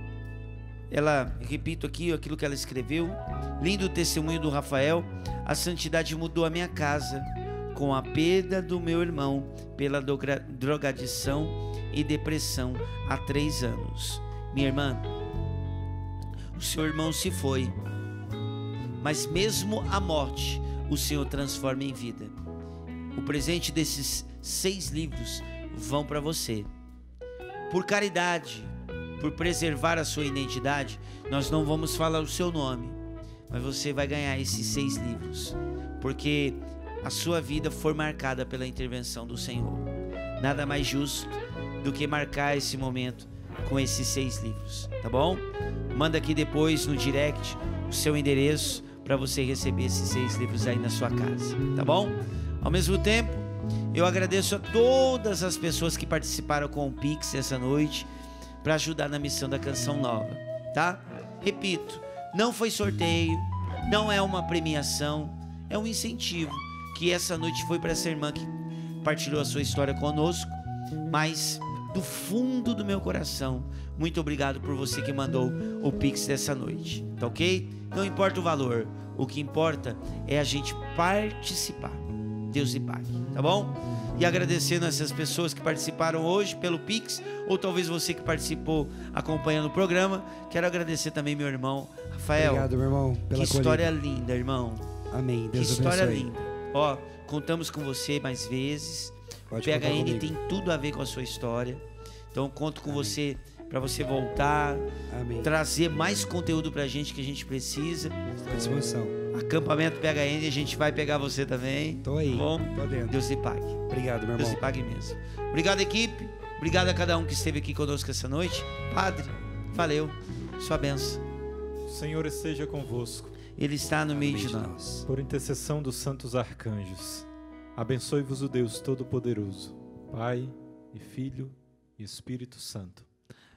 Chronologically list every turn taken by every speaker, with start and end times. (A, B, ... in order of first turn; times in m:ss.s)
0:00.9-0:15.1 A
0:16.6-0:17.8 A
0:19.0-0:22.4 A
0:23.1-0:26.7 A
0:27.7-0:58.1 A
0:58.6-1:10.6 A
1:11.1-1:32.7 A
1:32.3-1:33.9 B
1:33.3-1:34.9 A
1:35.1-1:36.3 B
1:35.5-1:41.8 A
1:39.5-1:40.4 B
1:42.3-1:44.8 A
1:42.8-1:43.2 B
1:45.1-1:45.6 B
1:45.4-1:48.2 A
1:48.4-1:49.2 B
1:49.3-1:53.8 A
1:52.0-1:53.2 B
1:53.9-1:54.6 B
1:54.4-2:01.2 A
2:01.9-2:03.3 C
2:03.6-2:04.7 A
2:04.1-2:05.1 B
2:05.1-2:13.1 C